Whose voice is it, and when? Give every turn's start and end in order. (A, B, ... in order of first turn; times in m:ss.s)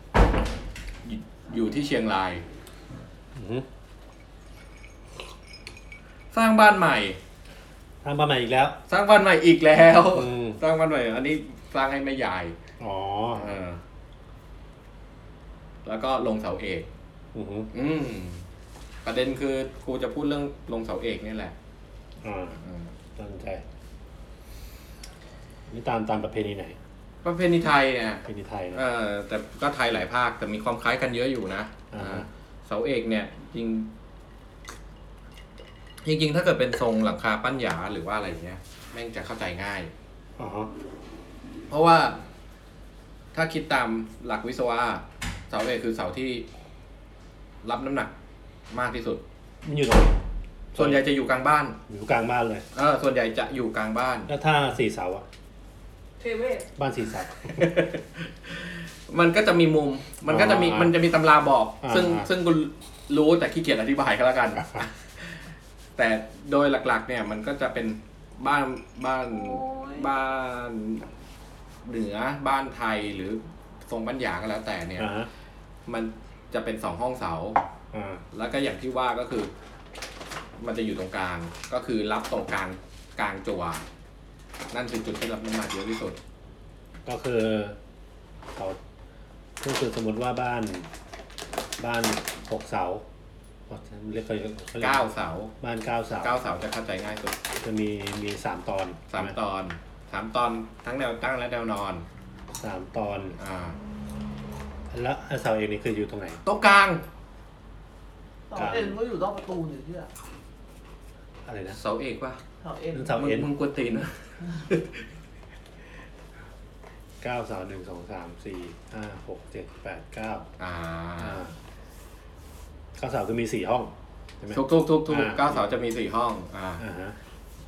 0:01.0-0:02.4 A
0:03.4-0:03.7 B
0:06.3-0:07.2 A
0:08.0-0:08.8 B
0:08.9-0:12.6 A
0:10.1-0:10.6 B
0:12.8-0:13.5 B
0:13.3-0:13.8 A
0:15.8-0:16.9 A
0:17.3-0:17.7 B
0:17.7-0:18.4 A
0:19.0-0:21.5 A
0:22.2-0:22.6 B
0:22.6-0:22.9 A
0:23.2-0:23.6 B
0:25.7-0:26.8 B
0:27.2-0:33.9 A
0:28.2-0:28.8 B
0:31.9-0:32.3 B
0:36.0-0:39.9 A
0:40.4-0:40.7 B
0:41.7-0:42.2 A
0:43.3-0:46.4 A
0:47.6-0:48.1 A
0:48.7-0:49.2 A
0:49.6-0:50.2 B
0:50.7-0:51.0 B
0:50.8-0:51.8 A
0:51.9-0:52.6 B
0:52.7-0:54.3 A
0:54.3-0:55.2 B
0:56.2-0:56.7 C
0:56.8-0:57.7 B
0:57.5-1:05.4 A
1:00.3-1:01.0 B
1:01.8-1:02.3 B
1:06.0-1:11.1 A
1:09.3-1:10.1 C
1:11.8-1:15.1 A
1:15.0-1:15.3 B
1:15.9-1:17.6 A
1:17.9-1:18.2 B
1:18.3-1:19.5 A
1:20.6-1:23.8 A
1:24.7-1:26.2 A
1:27.0-1:27.8 B
1:29.6-1:30.9 B
1:31.8-1:33.0 B
1:33.7-1:35.1 B
1:34.8-1:35.5 A
1:35.6-1:36.5 B
1:36.1-1:37.4 A
1:37.6-1:39.3 B
1:39.1-1:42.0 A
1:42.6-1:43.4 B
1:43.4-1:43.8 A
1:44.9-1:46.4 B
1:46.4-1:47.0 A
1:48.5-1:50.1 C
1:48.5-1:49.0 B
1:51.4-1:51.8 B
1:51.7-1:52.4 A
1:52.6-1:53.2 C
1:52.9-1:53.5 B
1:53.1-1:55.0 A
1:57.2-2:00.5 B
2:00.6-2:01.4 A
2:01.2-2:01.5 B
2:03.0-2:05.7 B
2:04.5-2:06.8 A
2:06.8-2:07.2 B